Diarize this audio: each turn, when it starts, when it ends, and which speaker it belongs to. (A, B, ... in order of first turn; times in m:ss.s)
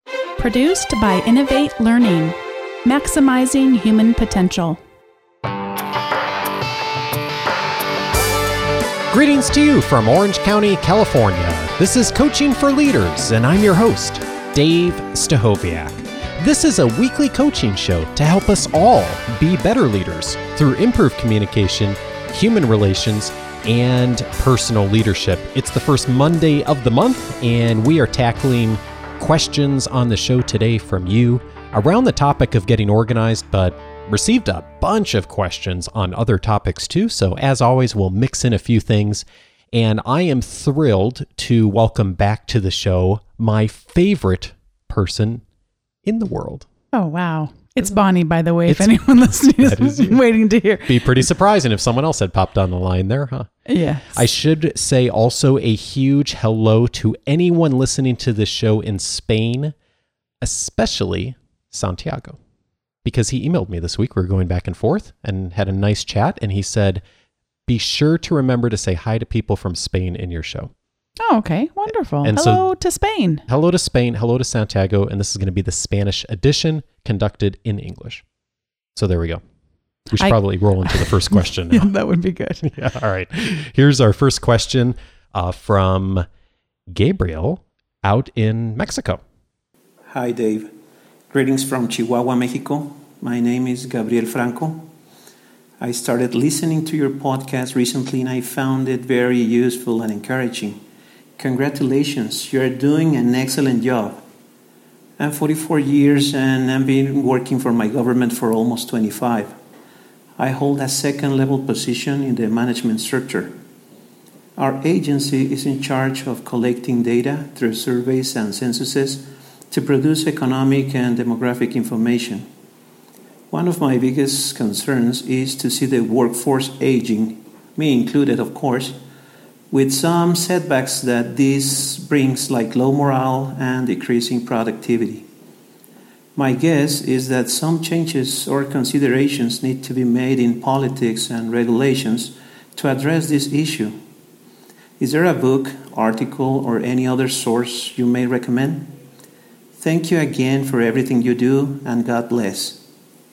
0:00.4-0:04.8 A
0:09.1-0:45.4 B
0:46.0-0:46.7 B
0:46.9-0:51.0 A
0:48.7-0:50.2 B
0:50.8-0:53.5 B
0:53.7-0:54.2 A
0:54.1-0:59.7 B
1:00.4-1:02.4 B
1:03.0-1:07.0 B
1:07.7-1:10.7 B
1:11.2-1:13.4 A
1:12.2-1:12.7 B
1:13.5-1:18.2 B
1:18.9-1:19.4 B
1:20.1-1:21.9 B
1:20.2-1:22.6 A
1:22.6-1:26.2 B
1:26.9-1:29.2 B
1:30.1-1:30.7 C
1:31.3-1:34.9 C
1:35.8-1:40.8 C
1:41.4-1:44.2 C
1:45.2-1:49.6 C
1:50.4-1:53.6 C
1:54.6-2:02.4 C
2:03.5-2:09.0 C
2:09.7-2:15.2 C
2:16.4-2:24.0 C
2:25.0-2:29.0 C
2:29.8-2:32.8 C